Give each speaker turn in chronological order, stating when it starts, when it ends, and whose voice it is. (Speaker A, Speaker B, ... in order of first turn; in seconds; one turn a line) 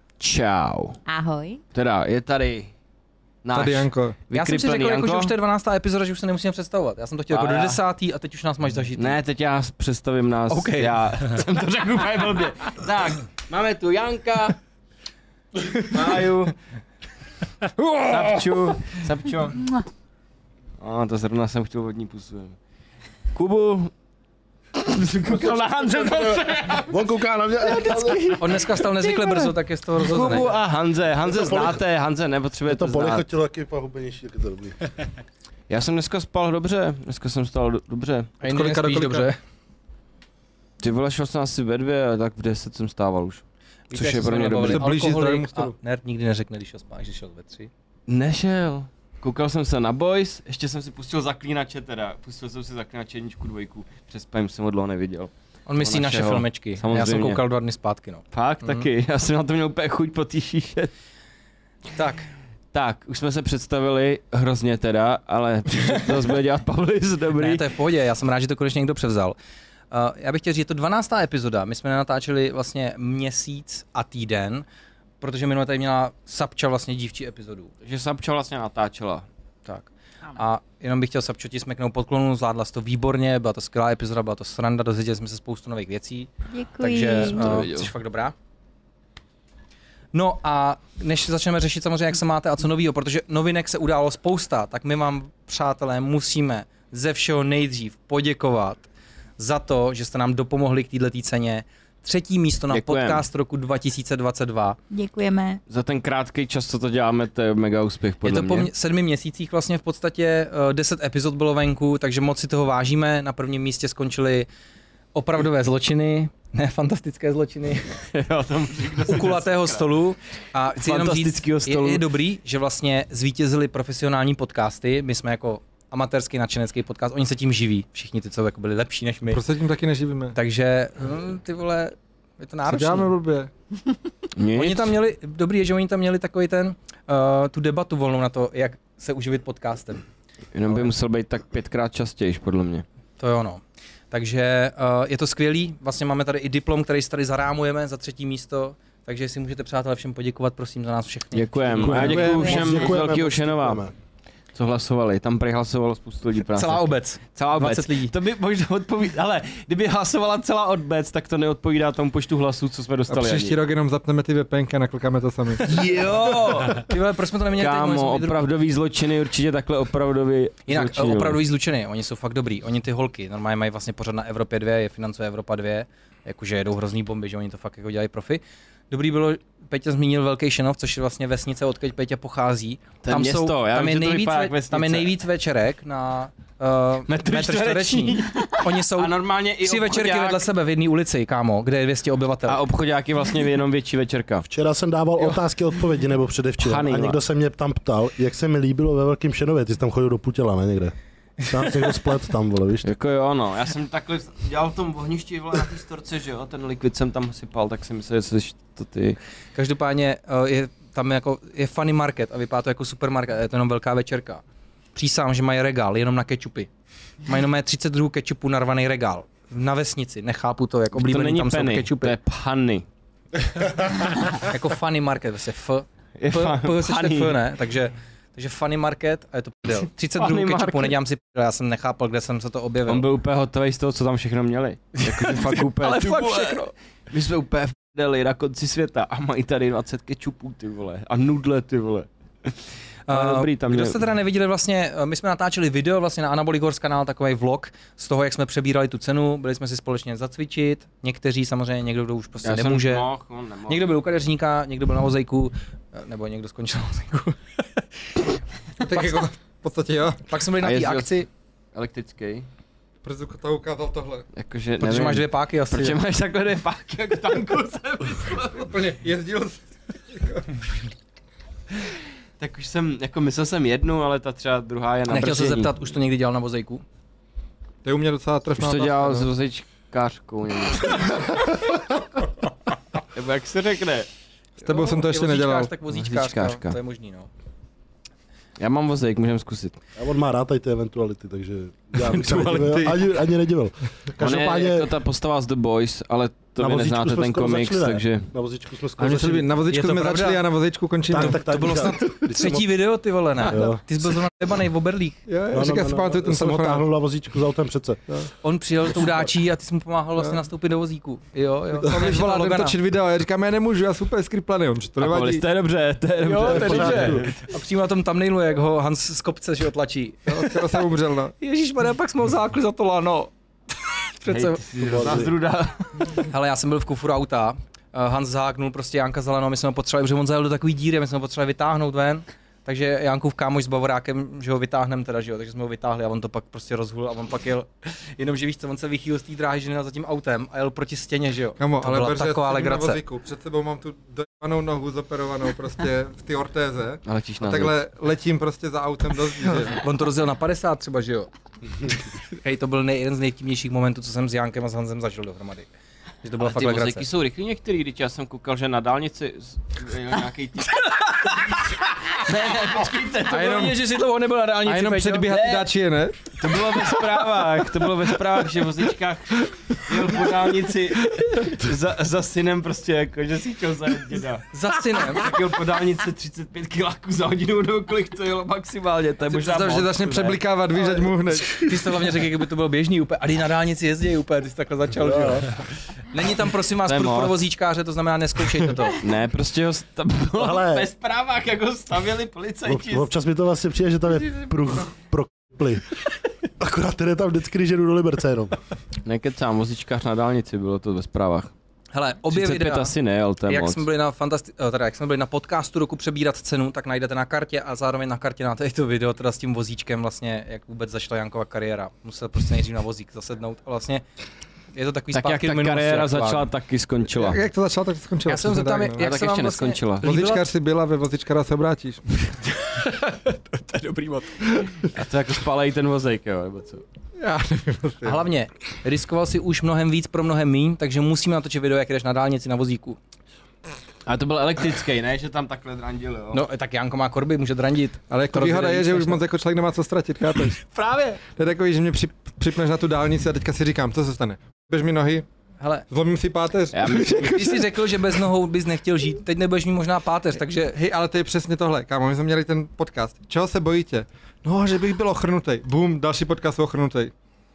Speaker A: 0.2-1.0
Speaker B: 1.1-1.6
Speaker A: 1.7-2.7
Speaker A: 3.4-5.3
Speaker C: 3.5-4.2
Speaker D: 4.3-9.2
Speaker A: 7.3-7.8
Speaker A: 9.0-14.6
Speaker D: 10.5-11.0
Speaker A: 15.8-16.6
Speaker C: 18.1-18.8
Speaker A: 18.1-19.7
Speaker A: 20.8-22.6
Speaker A: 23.3-23.9
Speaker A: 24.8-27.1
Speaker E: 25.2-28.4
Speaker A: 27.6-33.2
Speaker D: 28.4-30.6
Speaker E: 31.2-31.8
Speaker E: 32.7-34.8
Speaker A: 35.7-38.3
Speaker D: 38.4-39.4
Speaker C: 38.4-39.3
Speaker A: 40.8-44.8
Speaker D: 43.9-47.7
Speaker C: 44.7-45.7
Speaker A: 48.1-57.4
Speaker D: 55.7-58.9
Speaker A: 58.3-60.9
Speaker D: 61.9-62.3
Speaker A: 62.7-67.7
Speaker D: 67.3-69.4
Speaker D: 69.9-74.7
Speaker D: 75.2-77.7
Speaker A: 77.8-79.2
Speaker D: 79.7-88.3
Speaker B: 86.5-87.4
Speaker A: 87.2-87.9
Speaker D: 90.1-104.8
Speaker A: 102.7-103.2
Speaker B: 104.9-105.6
Speaker A: 105.7-108.7
Speaker D: 108.2-114.5
Speaker D: 115.1-118.0
Speaker A: 118.1-119.9
Speaker D: 119.1-129.4
Speaker A: 120.8-122.0
Speaker C: 129.3-130.3
Speaker D: 130.3-133.1
Speaker C: 132.7-133.5
Speaker A: 134.3-134.9
Speaker D: 134.5-140.0
Speaker A: 140.5-142.8
Speaker D: 140.7-140.9
Speaker D: 143.2-152.6
Speaker A: 151.3-153.8
Speaker E: 151.8-153.9
Speaker B: 152.4-152.9
Speaker A: 154.5-163.6
Speaker D: 156.5-158.1
Speaker C: 163.1-166.7
Speaker A: 165.6-166.9
Speaker D: 166.2-168.4
Speaker A: 167.6-171.4
Speaker D: 170.7-192.6
Speaker A: 183.0-185.1
Speaker A: 187.1-190.4
Speaker A: 192.5-194.5
Speaker E: 194.5-200.9
Speaker A: 196.6-197.2
Speaker E: 201.5-202.9
Speaker A: 202.8-209.2
Speaker D: 209.5-214.4
Speaker D: 214.9-216.7
Speaker D: 217.2-222.2
Speaker A: 220.9-222.8
Speaker D: 224.2-233.1
Speaker A: 226.2-227.3
Speaker A: 230.2-230.9
Speaker A: 232.9-242.6
Speaker D: 235.0-236.7
Speaker D: 243.1-253.1
Speaker A: 243.1-244.0
Speaker A: 252.4-253.9
Speaker D: 253.7-258.2
Speaker C: 258.8-260.2
Speaker D: 258.9-259.3
Speaker D: 260.3-261.3
Speaker A: 260.6-262.5
Speaker C: 263.0-264.2
Speaker A: 264.3-268.8
Speaker D: 264.8-266.0
Speaker C: 268.5-270.5
Speaker A: 272.4-275.7
Speaker D: 275.1-276.8
Speaker C: 277.8-279.3
Speaker A: 278.5-281.2
Speaker A: 283.1-284.1
Speaker C: 284.6-285.7
Speaker D: 284.6-287.3
Speaker A: 285.9-286.8
Speaker A: 288.6-289.8
Speaker E: 289.9-294.9
Speaker C: 292.0-293.0
Speaker A: 294.2-298.3
Speaker E: 296.6-299.5
Speaker C: 299.0-301.8
Speaker D: 299.7-300.4
Speaker E: 301.1-302.6
Speaker D: 301.1-305.2
Speaker E: 303.4-303.8
Speaker C: 305.3-306.9
Speaker E: 305.5-308.0
Speaker D: 308.4-312.8
Speaker C: 311.8-315.4
Speaker A: 315.0-317.5
Speaker D: 316.2-320.8
Speaker E: 316.4-317.3
Speaker C: 320.3-321.3
Speaker D: 321.4-323.3
Speaker D: 323.9-324.6
Speaker A: 324.3-326.2
Speaker E: 324.8-325.3
Speaker D: 326.1-343.0
Speaker C: 341.6-349.8
Speaker A: 347.1-347.8
Speaker D: 349.6-351.3
Speaker D: 352.3-355.7
Speaker D: 356.2-357.1
Speaker A: 356.4-361.4
Speaker D: 360.8-361.6
Speaker A: 362.1-363.6
Speaker D: 363.2-365.3
Speaker C: 363.4-363.8
Speaker C: 364.6-366.3
Speaker A: 365.3-365.7
Speaker A: 366.3-374.4
Speaker D: 374.5-375.3
Speaker A: 375.1-380.4
Speaker D: 379.3-379.9
Speaker C: 379.4-381.9
Speaker D: 381.5-385.5
Speaker E: 384.9-385.4
Speaker D: 386.1-389.0
Speaker A: 386.8-387.4
Speaker A: 389.0-393.1
Speaker E: 390.4-390.9
Speaker E: 392.6-395.8
Speaker E: 396.6-398.6
Speaker A: 399.0-401.5
Speaker D: 401.9-402.9
Speaker A: 402.3-403.9
Speaker D: 403.4-414.0
Speaker D: 414.7-416.5
Speaker A: 415.1-417.4
Speaker C: 417.1-419.1
Speaker D: 418.2-420.5
Speaker A: 419.0-420.1
Speaker C: 420.0-422.0
Speaker D: 422.7-424.4
Speaker A: 424.8-426.8
Speaker C: 427.2-428.2
Speaker D: 428.0-433.0
Speaker A: 434.1-436.4
Speaker D: 436.3-439.2
Speaker C: 438.1-440.6
Speaker D: 440.8-441.2
Speaker C: 441.3-445.2
Speaker D: 445.6-445.9
Speaker C: 445.9-447.4
Speaker A: 446.7-447.6
Speaker D: 447.1-450.8
Speaker C: 450.7-457.1